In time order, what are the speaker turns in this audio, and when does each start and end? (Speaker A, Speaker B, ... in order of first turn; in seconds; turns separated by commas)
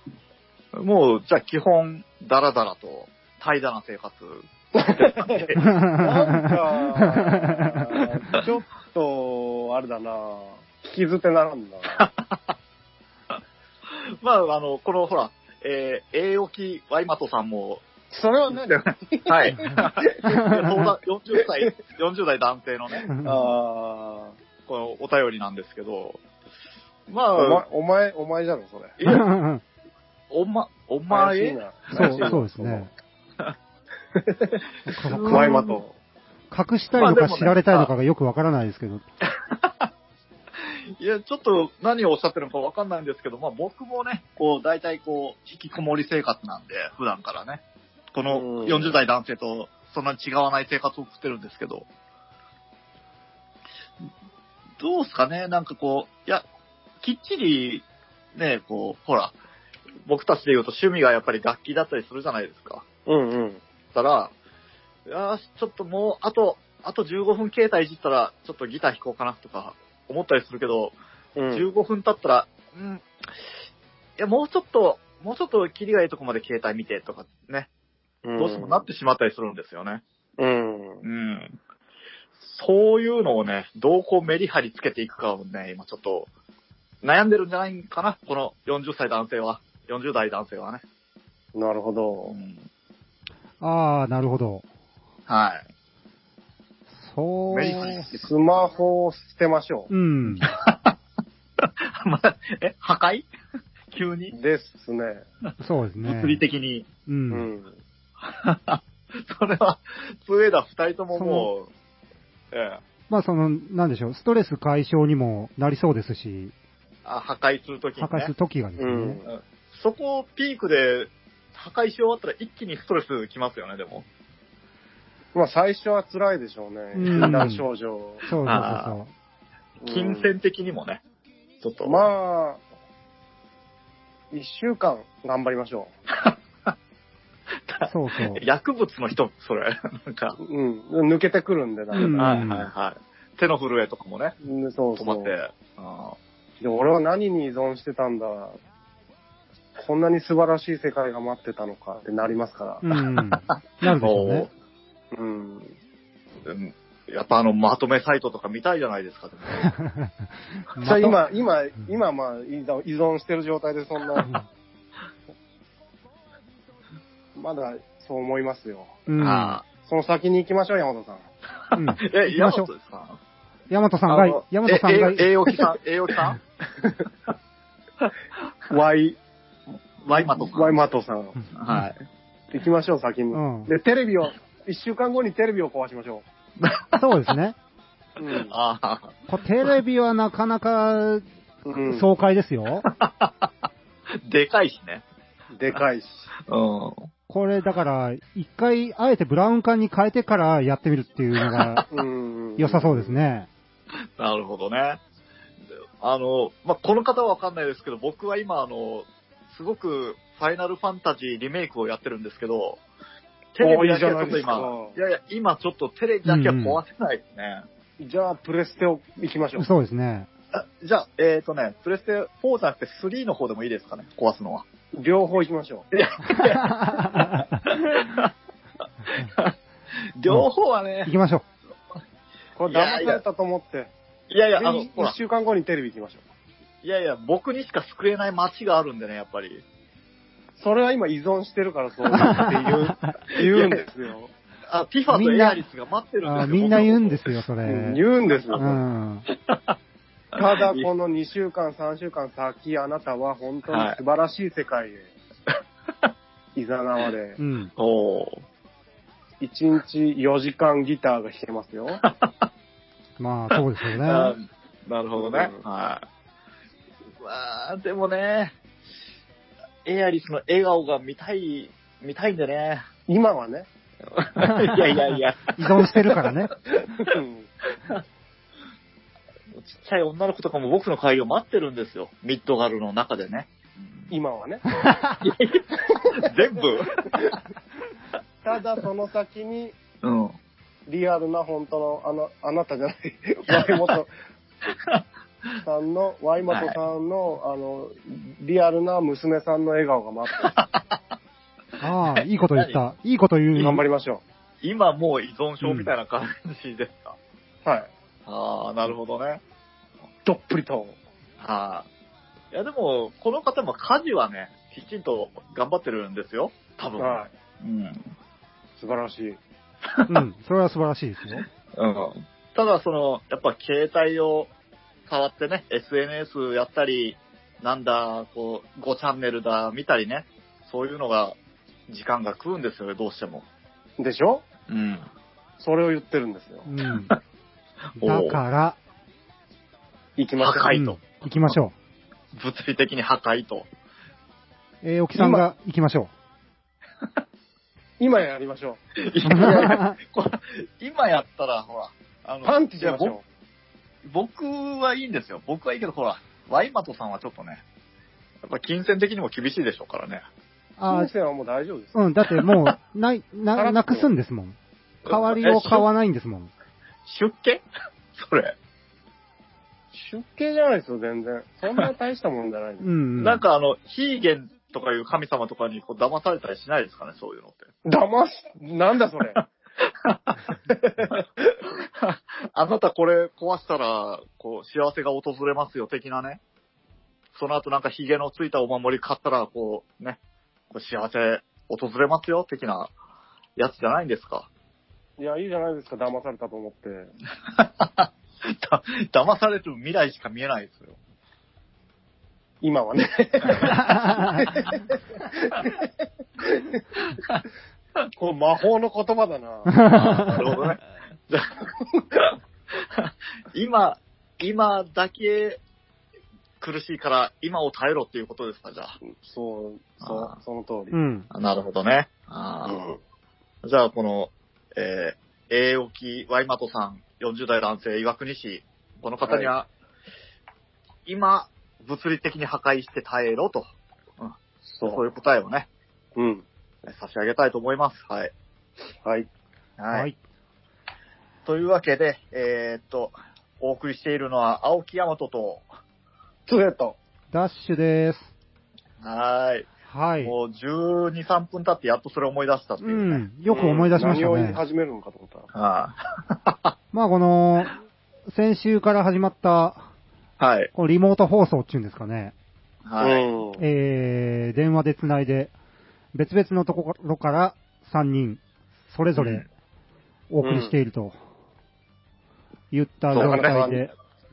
Speaker A: 0.8-5.8, Speaker B: 4.8-12.0, Speaker C: 5.6-8.0, Speaker A: 12.0-12.5, Speaker A: 14.2-17.8, Speaker B: 18.1-20.4, Speaker A: 18.7-23.5, Speaker C: 20.3-20.8, Speaker C: 23.1-23.4, Speaker B: 23.2-24.4, Speaker A: 24.7-26.2, Speaker A: 27.1-27.6, Speaker B: 27.4-29.0, Speaker A: 29.0-29.3, Speaker C: 29.1-29.6, Speaker A: 30.3-32.4, Speaker B: 31.1-32.9, Speaker C: 31.9-32.9, Speaker B: 34.2-34.6, Speaker C: 34.9-35.8, Speaker A: 35.0-35.6, Speaker B: 35.2-35.9, Speaker C: 36.5-39.0, Speaker A: 36.9-37.9, Speaker A: 39.5-39.9, Speaker A: 41.0-47.6, Speaker A: 48.1-51.9, Speaker B: 48.3-49.0, Speaker A: 54.8-56.5, Speaker A: 57.0-59.3, Speaker A: 60.1-62.9, Speaker B: 63.1-63.6, Speaker A: 63.9-64.3, Speaker A: 65.1-70.9, Speaker B: 71.4-71.7, Speaker A: 71.5-73.0, Speaker A: 74.2-77.7, Speaker B: 78.2-78.8, Speaker A: 78.4-80.0, Speaker B: 80.4-81.0, Speaker A: 81.0-81.6, Speaker A: 82.4-86.3, Speaker A: 87.0-90.8, Speaker B: 91.5-92.4, Speaker A: 92.3-92.7, Speaker C: 93.6-94.7, Speaker A: 95.3-95.7, Speaker C: 96.9-98.1, Speaker A: 97.5-98.2, Speaker B: 98.1-99.9, Speaker C: 99.9-100.5, Speaker A: 100.4-101.0, Speaker A: 101.6-103.3, Speaker A: 103.9-104.4, Speaker B: 104.3-105.2, Speaker C: 105.6-106.4, Speaker A: 106.0-106.9, Speaker C: 107.1-107.5, Speaker B: 107.3-107.8, Speaker A: 108.3-111.7, Speaker C: 111.2-111.5, Speaker A: 112.5-112.8, Speaker C: 113.1-116.5, Speaker A: 117.0-118.3, Speaker C: 118.0-119.2, Speaker B: 118.8-119.3, Speaker A: 119.3-124.1, Speaker B: 125.3-128.2, Speaker C: 127.0-127.7, Speaker A: 127.1-127.4, Speaker C: 128.2-129.1, Speaker A: 128.4-129.0, Speaker B: 129.8-130.3, Speaker A: 129.9-131.0, Speaker A: 131.6-132.0, Speaker B: 131.8-132.6, Speaker B: 134.3-135.9, Speaker A: 136.2-136.7, Speaker A: 137.7-140.4, Speaker C: 137.9-138.5, Speaker B: 140.4-142.3, Speaker C: 141.9-142.7, Speaker A: 142.1-144.3, Speaker B: 144.4-145.3, Speaker A: 145.0-146.2, Speaker B: 146.6-148.6, Speaker B: 149.8-152.8, Speaker C: 152.8-154.5, Speaker A: 153.1-154.5, Speaker B: 155.1-155.7, Speaker A: 156.4-159.7, Speaker C: 159.8-160.1, Speaker C: 160.7-161.2, Speaker B: 160.8-164.3, Speaker B: 167.3-169.0, Speaker C: 169.1-169.6, Speaker A: 169.2-169.6, Speaker B: 169.8-171.2, Speaker A: 171.7-173.2, Speaker C: 171.8-172.7, Speaker C: 173.7-175.6, Speaker A: 174.1-176.4, Speaker B: 178.7-179.2, Speaker A: 179.7-180.8, Speaker B: 180.3-181.4, Speaker A: 181.5-182.0, Speaker B: 182.5-186.2, Speaker C: 183.3-183.7, Speaker A: 186.6-187.0, Speaker C: 187.0-187.6, Speaker B: 188.2-188.6, Speaker A: 188.5-189.1, Speaker C: 189.3-191.2, Speaker B: 191.7-192.1, Speaker C: 191.9-192.9, Speaker A: 192.8-193.5, Speaker A: 194.2-195.0, Speaker B: 195.5-196.3, Speaker A: 196.5-197.1, Speaker C: 197.3-201.8, Speaker A: 201.5-201.8, Speaker B: 201.9-203.2, Speaker C: 202.6-203.5, Speaker A: 204.2-205.0, Speaker A: 206.0-212.8, Speaker A: 213.5-217.7, Speaker B: 213.6-214.9, Speaker C: 216.3-216.8, Speaker B: 218.0-219.7, Speaker C: 219.6-220.3, Speaker A: 220.5-224.7, Speaker B: 224.9-225.9, Speaker A: 225.9-228.3, Speaker C: 226.3-227.8, Speaker A: 229.1-229.5, Speaker A: 230.2-231.1, Speaker C: 231.1-231.4, Speaker B: 232.6-233.9, Speaker A: 232.7-233.2, Speaker A: 234.3-235.2, Speaker B: 234.6-236.2, Speaker A: 236.8-239.6, Speaker B: 240.6-244.3, Speaker C: 242.2-242.7, Speaker A: 243.4-243.8, Speaker A: 244.7-247.3, Speaker C: 245.1-245.6, Speaker C: 246.2-248.0, Speaker B: 247.6-248.8, Speaker A: 248.3-248.6, Speaker C: 248.6-249.3, Speaker A: 249.3-249.7, Speaker B: 250.4-255.1, Speaker A: 250.5-250.9, Speaker A: 253.7-254.0, Speaker B: 256.6-257.4, Speaker C: 257.4-257.7, Speaker A: 257.8-258.4, Speaker B: 259.4-262.0, Speaker A: 262.0-262.5, Speaker C: 263.2-264.4, Speaker A: 263.5-266.0, Speaker B: 265.2-265.6, Speaker A: 267.2-268.6, Speaker A: 269.9-272.9, Speaker B: 273.1-273.7, Speaker A: 274.2-276.2, Speaker C: 274.4-274.8, Speaker C: 275.6-276.5, Speaker B: 277.0-277.5, Speaker A: 279.6-284.1, Speaker B: 284.1-284.7, Speaker C: 284.8-285.2, Speaker A: 285.2-287.4, Speaker B: 288.4-289.8, Speaker A: 290.0-290.4, Speaker B: 290.9-294.1, Speaker B: 295.6-300.6, Speaker A: 296.5-296.8, Speaker A: 300.6-300.9, Speaker C: 301.8-303.8, Speaker A: 302.2-302.8, Speaker B: 303.6-304.2, Speaker A: 304.6-307.2, Speaker C: 305.6-305.9, Speaker B: 307.6-307.9, Speaker A: 308.3-309.4, Speaker B: 310.2-311.0, Speaker A: 311.4-311.9, Speaker A: 312.5-318.0, Speaker B: 317.0-317.3, Speaker B: 318.8-319.4, Speaker C: 320.1-321.4, Speaker A: 321.8-324.5, Speaker A: 325.1-331.4, Speaker A: 331.9-333.5, Speaker B: 334.0-334.4, Speaker A: 334.7-335.1, Speaker B: 335.6-336.7, Speaker C: 336.7-337.1, Speaker C: 338.0-338.8, Speaker A: 338.0-338.4, Speaker B: 340.2-340.7, Speaker A: 340.4-341.6, Speaker C: 340.7-341.7, Speaker A: 342.3-343.7, Speaker C: 344.8-346.1, Speaker B: 345.2-345.5, Speaker B: 348.0-348.8, Speaker A: 349.0-353.2, Speaker C: 349.3-350.0, Speaker B: 352.4-353.2, Speaker A: 354.1-357.6, Speaker A: 358.5-360.2, Speaker C: 360.8-361.1, Speaker B: 360.9-362.0, Speaker C: 361.9-366.5, Speaker B: 363.6-364.1, Speaker A: 365.1-365.9, Speaker A: 367.1-367.6, Speaker A: 368.1-368.6, Speaker B: 369.9-372.9, Speaker C: 372.8-373.4, Speaker A: 373.2-377.7, Speaker B: 377.9-379.4, Speaker A: 379.4-380.4, Speaker A: 382.0-386.4, Speaker A: 387.4-390.2, Speaker A: 390.7-392.9, Speaker A: 393.6-394.5, Speaker B: 395.2-397.1, Speaker A: 397.6-401.0, Speaker B: 402.6-405.9, Speaker B: 406.4-406.8, Speaker B: 408.2-409.9, Speaker C: 409.7-410.4, Speaker A: 409.9-411.6, Speaker A: 413.0-415.6, Speaker A: 416.6-419.0, Speaker B: 419.1-421.0, Speaker A: 420.0-420.3, Speaker C: 420.9-421.3, Speaker A: 421.3-422.9, Speaker B: 422.6-423.0, Speaker A: 423.6-429.7, Speaker B: 429.2-429.5, Speaker A: 431.1-433.7, Speaker A: 434.2-435.7, Speaker B: 434.7-435.0, Speaker B: 436.2-436.4, Speaker A: 436.9-438.3, Speaker A: 439.8-440.1, Speaker A: 441.5-445.6, Speaker B: 446.5-447.0, Speaker C: 447.3-448.3, Speaker A: 449.0-449.7, Speaker C: 449.9-450.3, Speaker A: 450.2-453.9, Speaker C: 452.8-454.6, Speaker B: 453.5-455.5, Speaker A: 455.5-456.7, Speaker C: 456.9-457.7, Speaker C: 458.3-459.9, Speaker A: 460.4-460.7, Speaker C: 460.8-462.3, Speaker A: 462.9-463.2, Speaker B: 463.0-463.6, Speaker C: 463.6-465.5, Speaker C: 466.1-469.4, Speaker A: 469.2-469.5, Speaker C: 470.3-471.2, Speaker B: 470.4-470.7, Speaker C: 472.7-473.9, Speaker A: 473.1-473.6, Speaker B: 473.1-473.9